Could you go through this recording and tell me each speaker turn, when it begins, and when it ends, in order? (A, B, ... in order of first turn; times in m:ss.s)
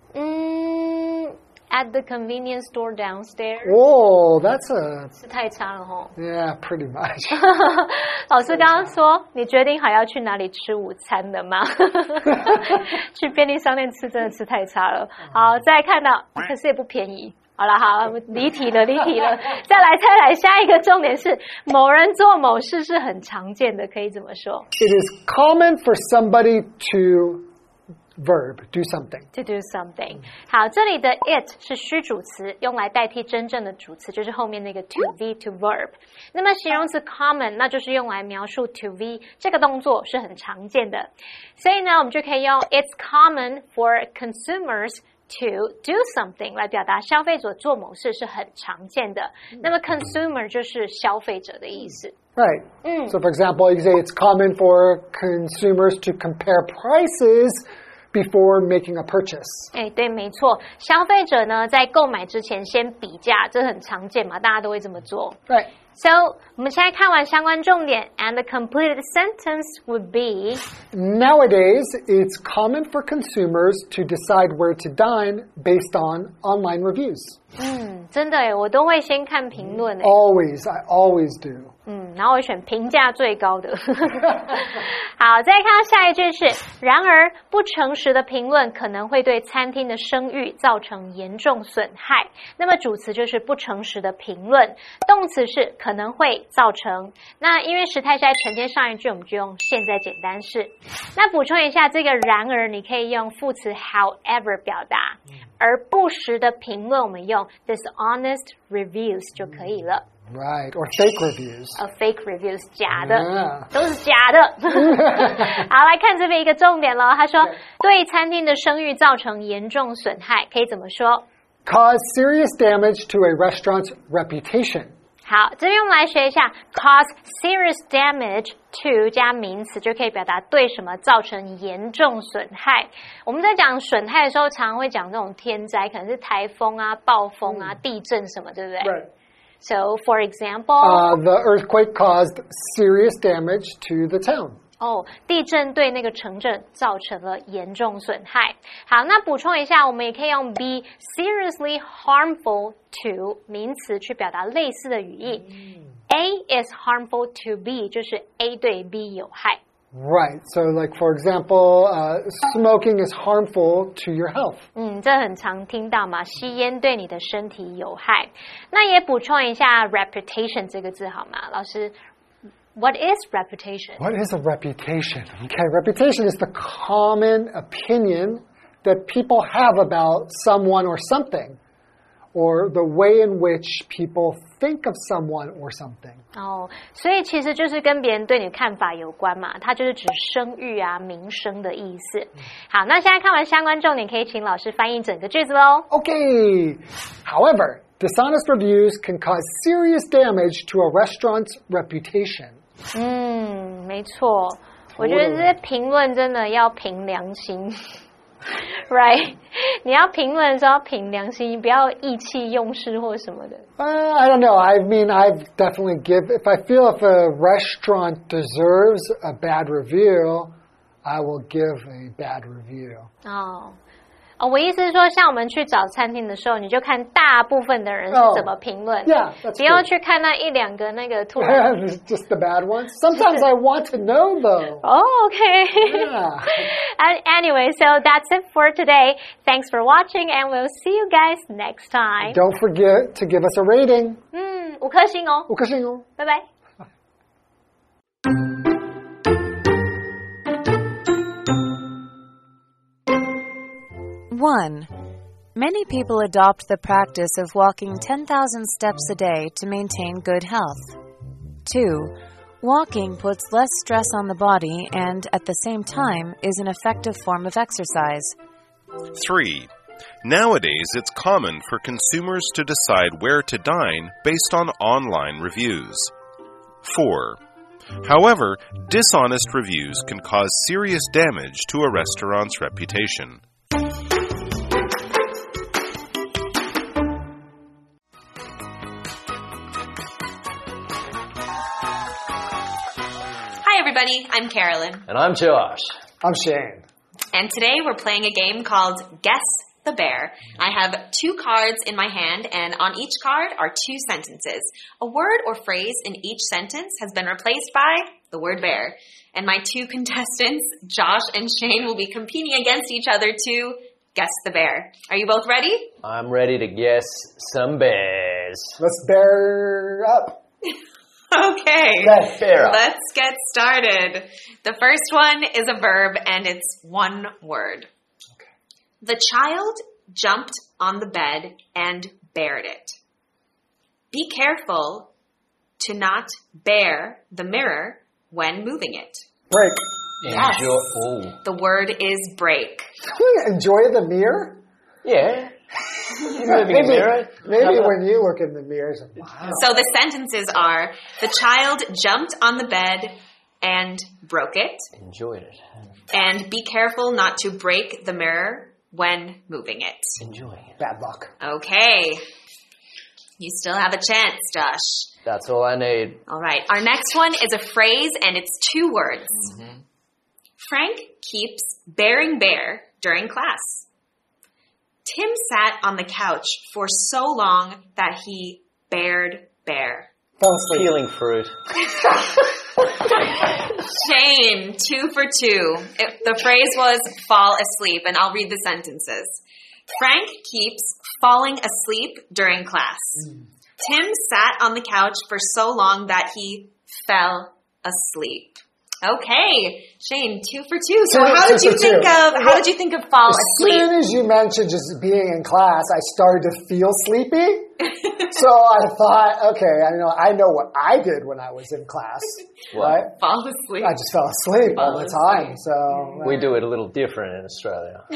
0:00.1-0:03.8 A
0:03.6-0:05.1 B
0:05.2-0:06.1 A
0:06.2-0:07.5 B
0:07.4-0:24.7 A
0:08.6-0:08.9 B
0:24.8-0:27.5 B
0:28.2-0:29.3 B
0:29.3-0:52.1 A
0:52.4-0:59.7 B
0:52.8-0:53.1 A
0:59.7-1:05.4 A
1:05.9-1:10.6 A
1:10.9-1:17.4 B
1:17.6-1:20.2 A
1:19.6-1:21.7 B
1:21.9-1:50.0 A
1:24.2-1:24.6 B
1:50.3-1:51.8 B
1:51.8-2:01.2 A
1:52.9-1:53.7 B
1:54.7-1:55.6 B
2:01.6-2:04.9 B
2:05.2-2:19.0 A
2:17.4-2:17.7 B
2:19.6-2:21.1 A
2:20.8-2:24.6 B
2:24.8-2:35.5 A
2:35.4-2:35.8 B
2:36.1-2:39.6 A
2:39.9-2:44.6 B
2:44.7-2:51.9 A
2:52.7-2:54.0 A
2:54.0-3:01.6 B
3:02.3-3:06.2 B
3:06.4-3:15.9 A
3:15.9-3:22.6 B
3:22.9-3:27.9 A
3:25.0-3:25.5 B
3:28.9-3:33.6 A
3:33.8-3:43.1 B
3:43.2-3:43.8 A
3:44.4-3:51.7 A
3:48.1-3:48.5 B
3:49.0-3:49.9 B
3:51.4-3:54.8 B
3:53.1-3:53.4 A
3:54.8-3:56.1 A
3:55.8-3:56.7 B
3:56.8-4:02.4 A
4:02.2-4:04.2 B
4:04.3-4:05.5 A
4:05.5-4:06.0 B
4:06.2-4:06.4 A
4:14.3-4:14.9 C
4:15.5-4:21.0 C
4:21.6-4:28.4 C
4:29.1-4:29.7 D
4:30.2-4:36.1 D
4:36.8-4:37.4 D
4:38.0-4:43.4 D
4:53.6-4:55.0 E
4:55.1-4:55.9 F
4:56.2-4:56.8 B
4:57.3-5:15.9 E
5:16.0-5:18.7 F
5:18.8-5:20.4 B
5:21.3-5:27.9 E
5:22.0-5:22.8 B
5:22.4-5:22.8 F
5:29.0-5:33.0 E
5:34.1-5:35.1 E
5:35.8-5:39.2 E
5:39.5-5:39.8 B
5:40.2-5:41.4 F
5:40.3-5:40.7 E
5:41.4-5:42.9 E
5:43.0-5:44.6 B
5:45.0-5:45.5 F
5:46.1-5:48.0 F
5:46.4-5:49.7 B
5:49.5-5:54.9 E
5:55.0-5:55.6 F
5:56.1-6:00.2 E
6:00.2-6:00.7 F
6:00.8-6:01.3 B
6:01.4-6:02.2 E
6:03.4-6:05.1 E
6:05.2-6:06.2 F
6:06.3-6:09.6 E
6:10.6-6:13.8 E
6:15.0-6:20.1 E
6:20.4-6:21.0 B
6:20.7-6:21.5 F
6:23.2-6:29.4 E
6:29.9-6:33.3 E
6:33.8-6:43.9 E
6:41.1-6:42.6 B
6:43.2-6:53.2 B
6:53.0-6:54.0 E
6:53.8-6:56.5 B
6:54.6-6:55.6 E
6:56.2-6:58.0 F